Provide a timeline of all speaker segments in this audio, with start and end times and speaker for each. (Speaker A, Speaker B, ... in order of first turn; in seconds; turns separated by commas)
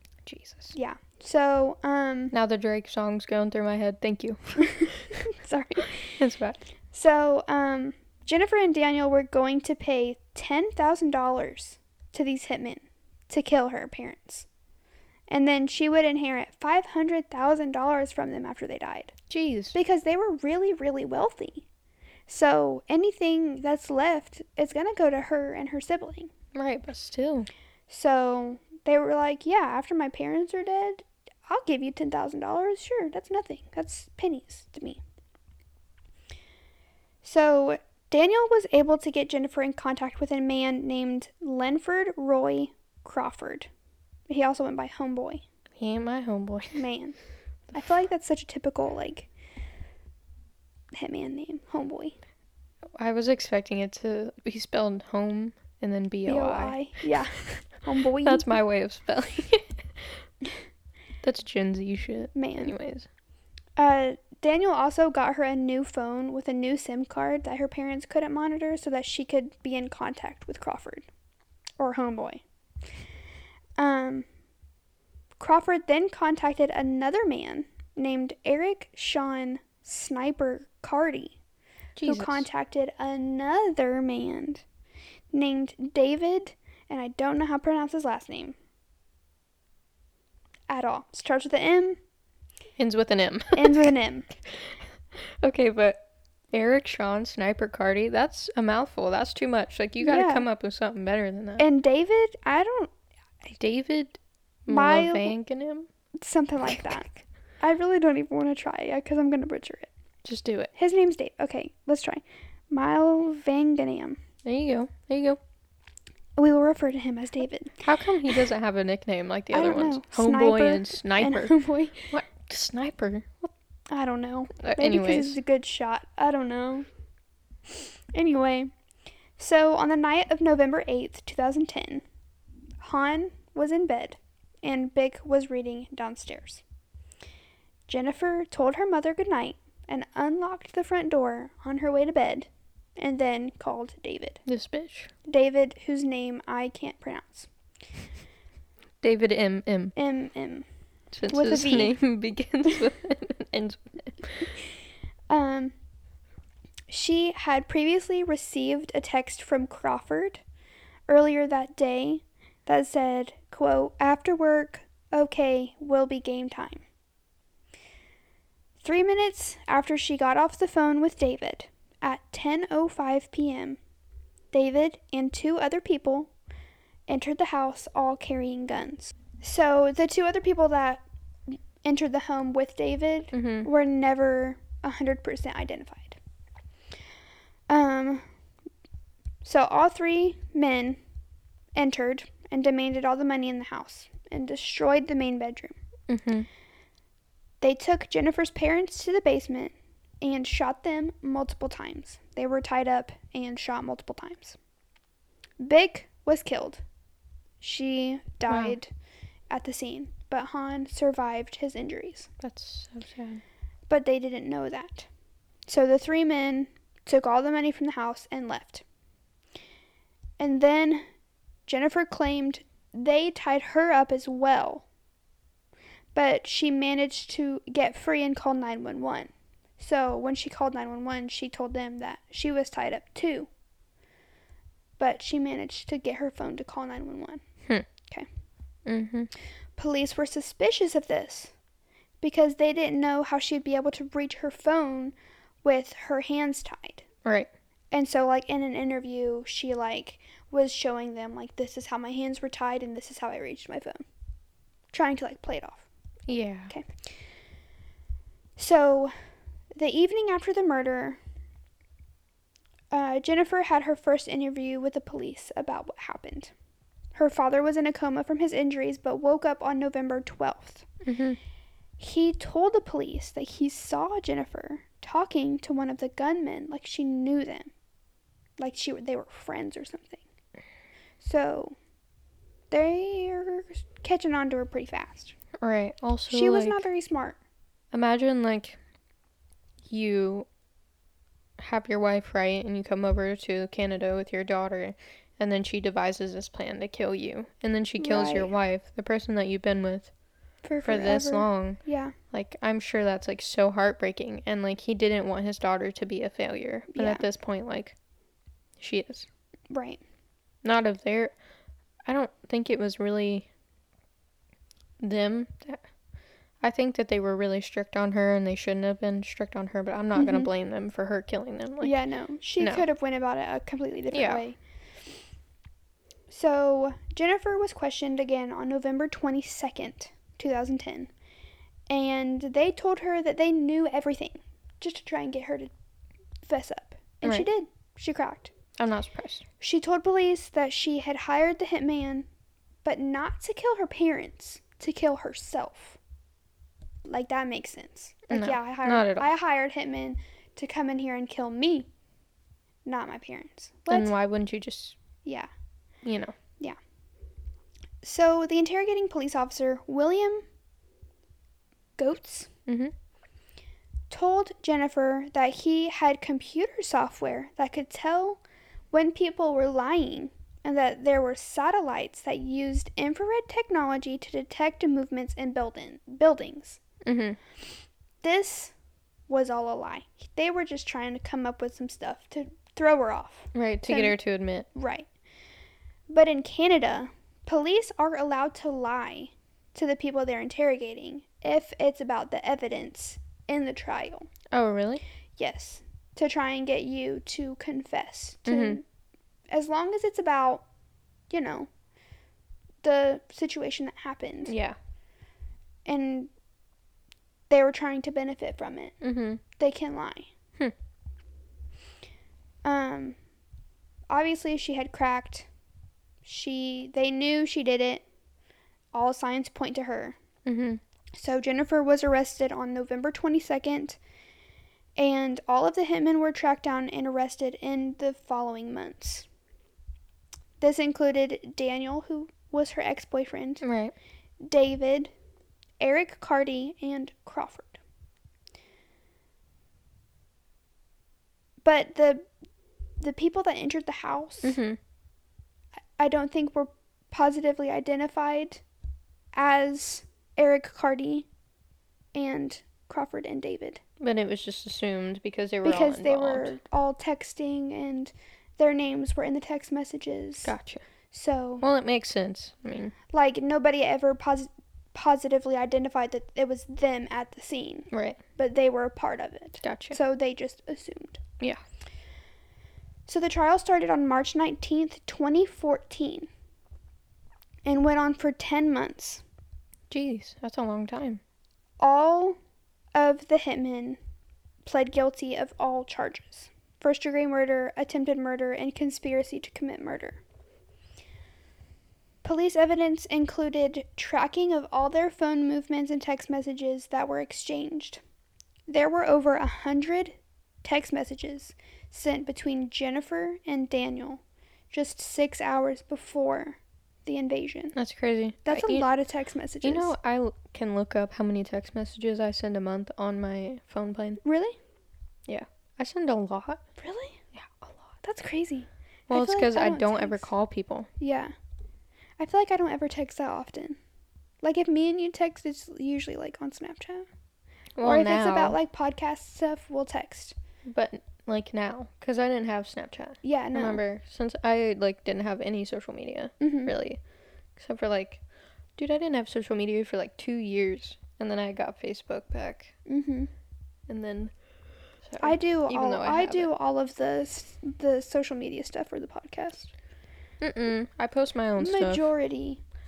Speaker A: 0.2-0.7, Speaker B: 0.7-2.3, Speaker A: 2.3-5.0, Speaker B: 4.7-6.2, Speaker A: 6.2-6.6, Speaker B: 6.9-14.4, Speaker B: 15.3-19.1, Speaker A: 19.3-19.7, Speaker B: 19.7-21.6, Speaker B: 22.3-26.3, Speaker A: 26.5-27.5, Speaker B: 27.9-35.0, Speaker B: 37.2-43.7, Speaker B: 44.3-45.4, Speaker A: 45.8-46.8, Speaker B: 46.7-47.2, Speaker B: 47.7-49.3, Speaker B: 50.9-52.1, Speaker A: 53.0-56.8, Speaker B: 56.2-58.5, Speaker A: 58.2-60.2, Speaker A: 61.2-63.1, Speaker B: 62.3-62.7, Speaker B: 63.8-71.1, Speaker B: 71.8-72.4, Speaker B: 73.8-74.2, Speaker B: 75.4-81.4, Speaker A: 82.0-82.5, Speaker B: 82.0-84.6, Speaker B: 85.3-88.5, Speaker B: 90.7-92.0, Speaker A: 92.8-93.9, Speaker B: 93.5-94.3, Speaker A: 94.5-101.7, Speaker B: 100.0-100.5, Speaker B: 101.6-102.9, Speaker A: 103.5-105.9, Speaker B: 104.7-105.3, Speaker B: 106.2-109.9, Speaker A: 106.7-107.0, Speaker A: 110.2-110.7, Speaker B: 110.7-114.2, Speaker A: 114.4-115.4, Speaker B: 116.4-118.4, Speaker A: 117.8-123.5, Speaker B: 119.5-122.1, Speaker B: 123.9-126.9, Speaker A: 124.6-125.4, Speaker B: 128.1-128.7, Speaker B: 129.4-132.0, Speaker B: 132.8-136.6, Speaker B: 137.9-144.4, Speaker A: 144.4-145.1, Speaker B: 145.2-147.5, Speaker A: 149.0-149.9, Speaker B: 149.9-150.7, Speaker A: 151.1-154.5, Speaker B: 151.3-151.9, Speaker B: 155.3-155.7, Speaker B: 156.9-160.4, Speaker B: 161.1-166.8, Speaker B: 168.8-173.8, Speaker B: 174.5-176.3, Speaker B: 177.1-186.2, Speaker A: 183.3-183.7, Speaker B: 187.7-188.2, Speaker B: 189.4-191.0, Speaker B: 191.7-195.8, Speaker A: 196.1-196.5, Speaker B: 197.6-204.6, Speaker B: 205.6-206.8, Speaker B: 207.6-208.9, Speaker A: 208.5-208.8, Speaker B: 209.5-212.3, Speaker A: 212.4-213.4, Speaker B: 213.9-215.1, Speaker B: 215.7-218.8, Speaker B: 220.4-221.0, Speaker B: 221.7-224.8, Speaker B: 226.1-233.5, Speaker B: 235.0-237.4, Speaker A: 238.8-239.3, Speaker B: 239.8-241.5, Speaker B: 242.2-247.0, Speaker A: 247.2-247.5, Speaker B: 247.9-254.0, Speaker B: 254.9-255.8, Speaker A: 256.3-256.7, Speaker B: 258.6-259.1, Speaker B: 259.7-261.2, Speaker B: 262.9-266.5, Speaker B: 267.1-270.9, Speaker A: 271.0-271.4, Speaker B: 272.0-277.7, Speaker B: 278.6-280.2, Speaker B: 281.2-281.8, Speaker B: 282.7-285.3, Speaker A: 285.6-286.8, Speaker B: 286.3-287.4, Speaker A: 287.9-288.8, Speaker A: 289.9-290.5, Speaker A: 291.6-300.1, Speaker B: 298.0-298.5, Speaker B: 300.6-302.1, Speaker A: 300.8-301.8, Speaker A: 302.3-307.9, Speaker B: 306.9-307.2, Speaker A: 308.8-309.3, Speaker B: 309.7-310.0, Speaker A: 310.6-311.3, Speaker A: 312.1-313.5, Speaker A: 315.0-315.9, Speaker A: 316.6-321.9, Speaker B: 320.1-320.5, Speaker B: 321.8-324.6, Speaker A: 322.6-322.8, Speaker A: 324.1-324.4, Speaker B: 326.3-331.1, Speaker B: 331.9-335.7, Speaker B: 336.4-338.5, Speaker A: 338.8-339.4, Speaker B: 339.6-342.3, Speaker B: 342.8-346.0, Speaker B: 347.1-351.9, Speaker A: 348.3-349.3, Speaker B: 352.9-354.1, Speaker A: 353.9-354.9, Speaker B: 355.2-355.5, Speaker A: 356.0-356.3, Speaker B: 358.0-360.4, Speaker B: 362.0-362.5, Speaker A: 362.7-362.9, Speaker B: 364.1-368.4, Speaker B: 368.9-376.8, Speaker A: 377.0-377.4, Speaker B: 378.2-378.7, Speaker B: 379.3-384.1, Speaker A: 383.5-384.7, Speaker B: 384.7-385.1, Speaker B: 386.1-394.3, Speaker A: 394.5-395.0, Speaker B: 395.4-398.8, Speaker A: 398.5-398.8, Speaker B: 399.5-400.6, Speaker B: 401.3-401.7, Speaker B: 402.8-404.5, Speaker A: 404.4-404.8, Speaker B: 405.9-406.3, Speaker B: 407.5-408.9, Speaker A: 409.0-409.4, Speaker B: 409.6-410.3, Speaker B: 412.6-413.2, Speaker B: 414.1-415.5, Speaker B: 416.2-418.0, Speaker B: 418.9-420.2, Speaker A: 420.4-420.8, Speaker B: 421.1-424.0, Speaker B: 425.0-429.2, Speaker B: 430.6-433.6, Speaker A: 433.6-433.9, Speaker B: 434.4-435.1, Speaker B: 435.8-437.8, Speaker B: 441.6-442.3, Speaker B: 443.0-444.6, Speaker A: 444.4-444.8, Speaker B: 446.0-448.6, Speaker B: 449.3-451.3, Speaker B: 452.1-453.8, Speaker A: 454.0-456.5, Speaker B: 455.6-460.5, Speaker A: 460.4-460.8, Speaker B: 461.1-461.6, Speaker A: 461.6-462.9, Speaker B: 463.1-471.2, Speaker A: 467.9-468.2, Speaker A: 469.6-470.0, Speaker B: 473.1-476.3, Speaker B: 477.6-479.2, Speaker A: 479.9-481.2, Speaker B: 481.8-482.4, Speaker B: 482.9-484.0, Speaker B: 484.6-490.2, Speaker B: 492.2-498.0, Speaker B: 498.7-507.7, Speaker A: 507.7-508.9, Speaker B: 508.4-509.9, Speaker A: 509.6-514.2, Speaker B: 514.2-514.5, Speaker A: 515.3-516.6, Speaker B: 516.8-517.2, Speaker A: 517.3-517.8, Speaker B: 518.0-520.3, Speaker A: 519.1-520.9, Speaker B: 521.0-521.3, Speaker B: 522.2-523.8, Speaker B: 524.4-527.0, Speaker A: 527.8-528.6, Speaker B: 527.8-530.3, Speaker A: 530.6-537.0, Speaker B: 533.2-533.8, Speaker B: 536.4-536.7, Speaker A: 537.5-538.2, Speaker A: 538.8-542.7, Speaker B: 542.9-543.3, Speaker A: 543.9-544.3, Speaker A: 545.0-546.5, Speaker B: 545.2-549.7, Speaker A: 550.4-552.1, Speaker B: 551.6-552.6